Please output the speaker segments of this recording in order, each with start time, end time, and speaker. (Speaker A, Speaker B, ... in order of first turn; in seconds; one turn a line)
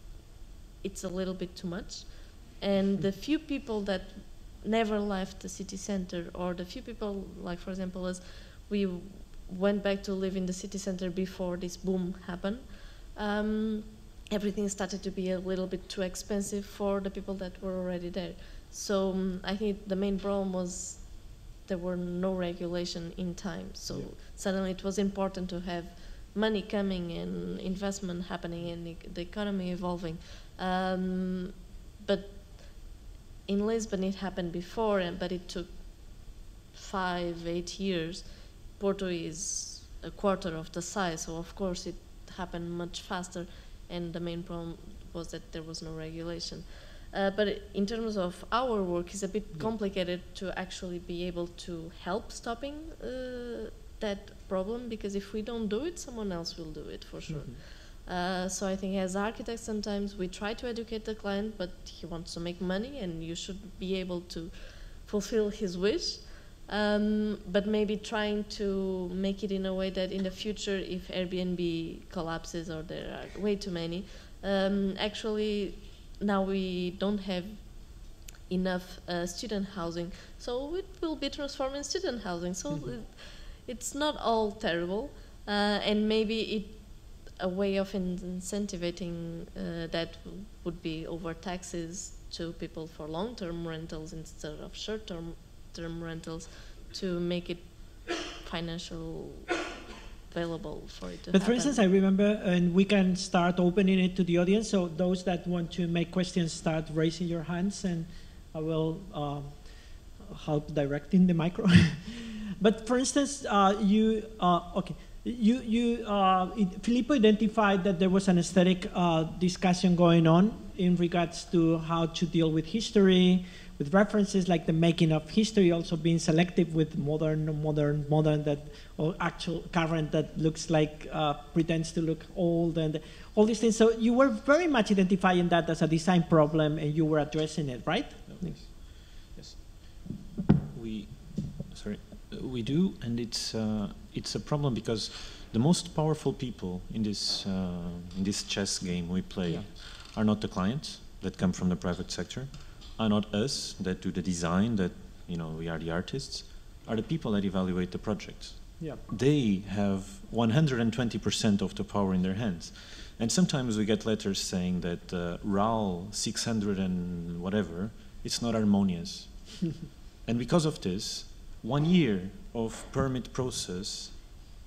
Speaker A: 0.8-32.9
Speaker B: 23.9-24.1
Speaker A: 33.5-99.5
Speaker B: 57.3-57.6
Speaker B: 82.7-82.9
Speaker A: 100.3-101.8
Speaker B: 101.3-138.7
Speaker C: 138.2-140.0
Speaker C: 140.7-174.5
Speaker B: 149.4-149.7